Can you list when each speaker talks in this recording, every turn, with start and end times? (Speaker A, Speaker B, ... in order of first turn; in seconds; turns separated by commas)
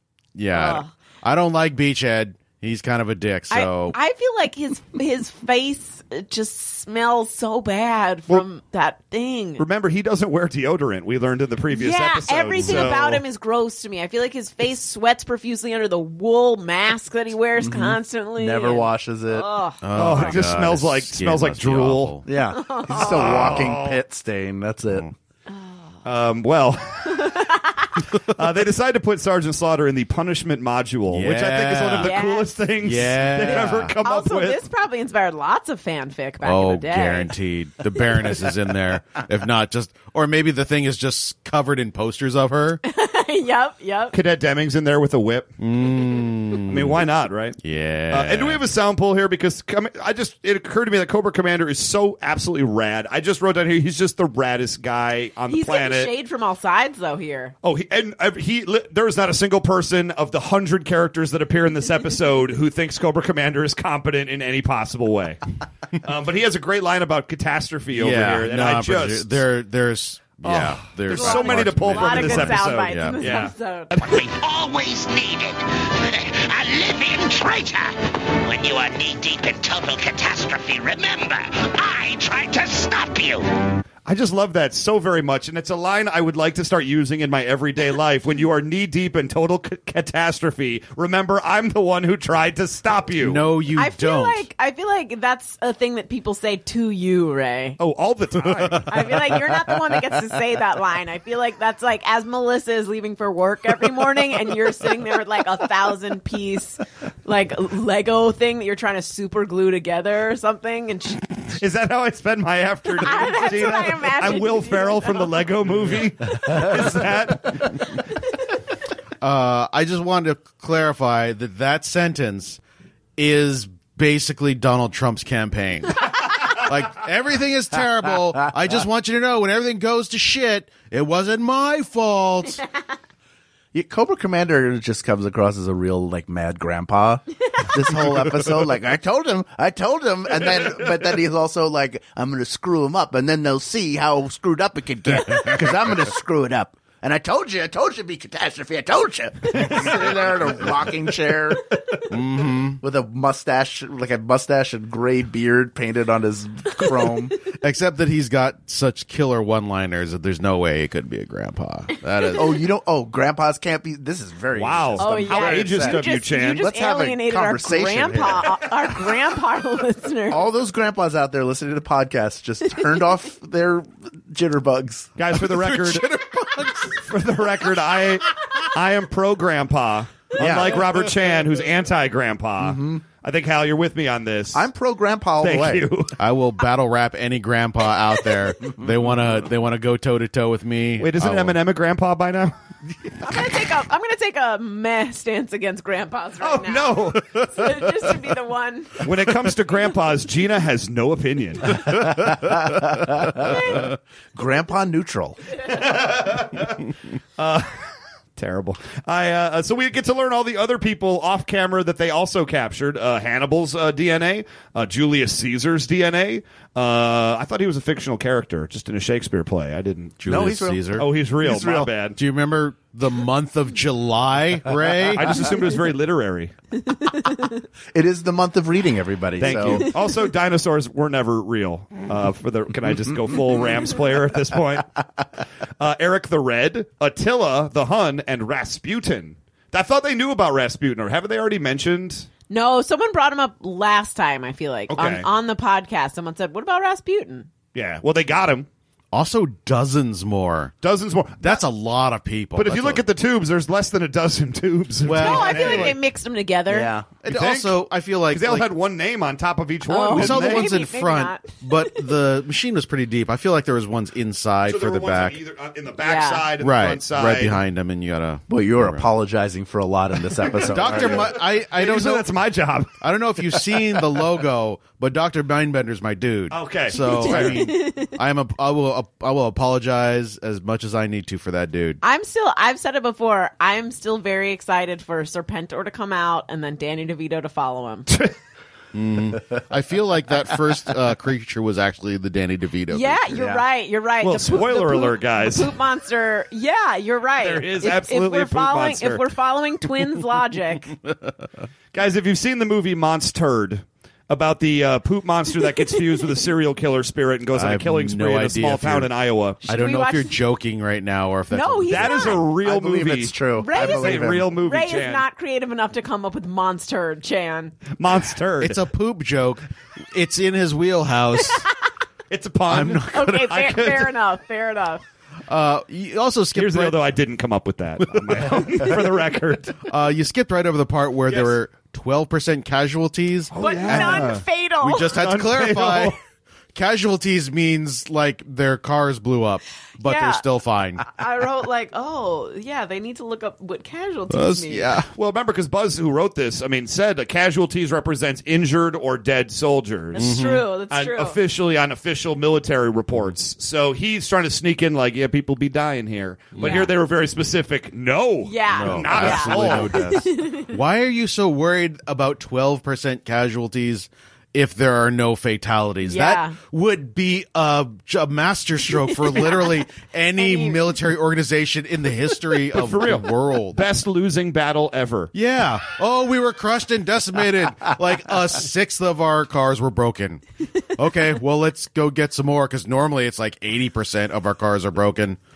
Speaker A: 0.3-4.0, Speaker B: 0.5-0.9, Speaker B: 3.5-9.6, Speaker C: 9.6-13.2, Speaker B: 11.7-19.8, Speaker A: 12.6-12.9, Speaker D: 17.6-19.5, Speaker A: 19.8-22.2, Speaker C: 20.0-22.2, Speaker D: 22.3-25.1, Speaker B: 22.5-23.4, Speaker C: 23.0-24.0, Speaker B: 25.5-25.8, Speaker C: 26.0-27.3, Speaker B: 27.2-27.8, Speaker C: 28.3-34.6, Speaker A: 31.1-32.2, Speaker B: 32.0-32.6, Speaker A: 32.8-33.9, Speaker B: 33.4-37.3, Speaker A: 36.4-42.8, Speaker B: 42.8-44.1, Speaker C: 44.1-45.5, Speaker A: 45.6-47.1, Speaker C: 46.7-47.6, Speaker A: 47.6-48.6, Speaker C: 48.1-56.1, Speaker B: 55.5-57.5, Speaker C: 57.6-65.4, Speaker C: 66.0-69.4, Speaker A: 67.9-73.4, Speaker C: 70.4-74.2, Speaker B: 71.1-74.0, Speaker E: 74.0-83.5, Speaker C: 84.1-93.4, Speaker A: 93.2-94.5, Speaker B: 93.8-97.8, Speaker C: 97.8-99.0, Speaker B: 98.9-111.4, Speaker C: 111.6-117.8, Speaker B: 113.0-115.4, Speaker A: 119.2-122.6, Speaker A: 123.2-132.6, Speaker D: 133.7-151.8, Speaker A: 145.1-145.7, Speaker A: 152.1-152.8, Speaker D: 152.8-157.4, Speaker A: 157.6-162.6, Speaker D: 162.3-168.7, Speaker C: 164.5-166.7, Speaker B: 165.0-170.4, Speaker D: 170.3-175.1, Speaker C: 175.2-176.1, Speaker A: 175.3-177.0, Speaker C: 177.0-184.7, Speaker D: 180.4-181.0, Speaker D: 182.6-183.0, Speaker D: 184.5-185.9, Speaker C: 185.4-186.1, Speaker A: 186.2-191.6, Speaker C: 191.0-192.6, Speaker B: 193.2-199.0, Speaker C: 196.4-197.5, Speaker C: 199.0-201.9, Speaker D: 201.8-205.4, Speaker C: 205.7-206.8, Speaker C: 207.4-207.8, Speaker C: 208.4-220.2, Speaker A: 220.2-221.1, Speaker D: 220.3-221.9, Speaker C: 221.0-222.2, Speaker A: 222.2-225.4, Speaker C: 225.1-226.5, Speaker B: 227.0-227.5, Speaker D: 227.9-229.9, Speaker C: 229.4-234.9, Speaker C: 235.8-242.3, Speaker B: 242.5-247.5, Speaker C: 244.9-245.3, Speaker C: 247.8-248.7, Speaker A: 249.1-250.7, Speaker C: 250.8-251.6, Speaker A: 251.4-253.0, Speaker C: 252.6-256.0, Speaker A: 255.0-256.0, Speaker B: 255.2-256.9, Speaker D: 256.7-257.1, Speaker A: 257.2-258.7, Speaker C: 257.3-257.8, Speaker C: 258.3-260.7, Speaker B: 259.9-262.0, Speaker A: 260.1-265.4, Speaker C: 264.7-267.6, Speaker B: 266.0-266.5, Speaker A: 266.6-269.1, Speaker D: 268.5-271.4, Speaker A: 270.7-272.3, Speaker C: 270.8-272.9, Speaker A: 273.0-282.0, Speaker C: 276.5-277.7, Speaker B: 277.1-278.1, Speaker B: 282.0-288.1, Speaker A: 288.9-293.6, Speaker B: 292.9-300.9, Speaker D: 293.3-293.6, Speaker C: 294.2-295.7, Speaker C: 297.4-299.3, Speaker C: 301.9-309.6, Speaker A: 307.5-309.1, Speaker B: 309.6-310.4, Speaker A: 309.6-312.3, Speaker B: 311.5-312.4, Speaker C: 311.9-315.2, Speaker D: 312.6-314.5, Speaker B: 313.6-317.8, Speaker C: 318.0-318.8, Speaker A: 318.6-321.7, Speaker C: 322.3-324.1, Speaker A: 322.7-323.6, Speaker B: 323.1-325.0, Speaker A: 325.5-327.0, Speaker C: 326.6-329.8, Speaker A: 328.1-329.0, Speaker A: 329.8-336.2, Speaker C: 331.3-331.6, Speaker C: 333.5-334.4, Speaker B: 333.6-335.2, Speaker C: 335.1-336.2, Speaker A: 336.7-341.1, Speaker B: 340.0-340.4, Speaker B: 341.1-345.0, Speaker A: 344.3-345.1, Speaker C: 345.2-350.4, Speaker B: 350.1-351.4, Speaker A: 350.2-350.7, Speaker C: 350.9-360.2, Speaker A: 356.6-356.9, Speaker B: 356.6-356.9, Speaker B: 358.4-360.7, Speaker A: 358.7-373.8, Speaker B: 366.0-366.6, Speaker B: 369.1-369.8, Speaker B: 370.4-370.9, Speaker C: 372.7-375.3, Speaker A: 375.3-380.4, Speaker A: 380.9-385.4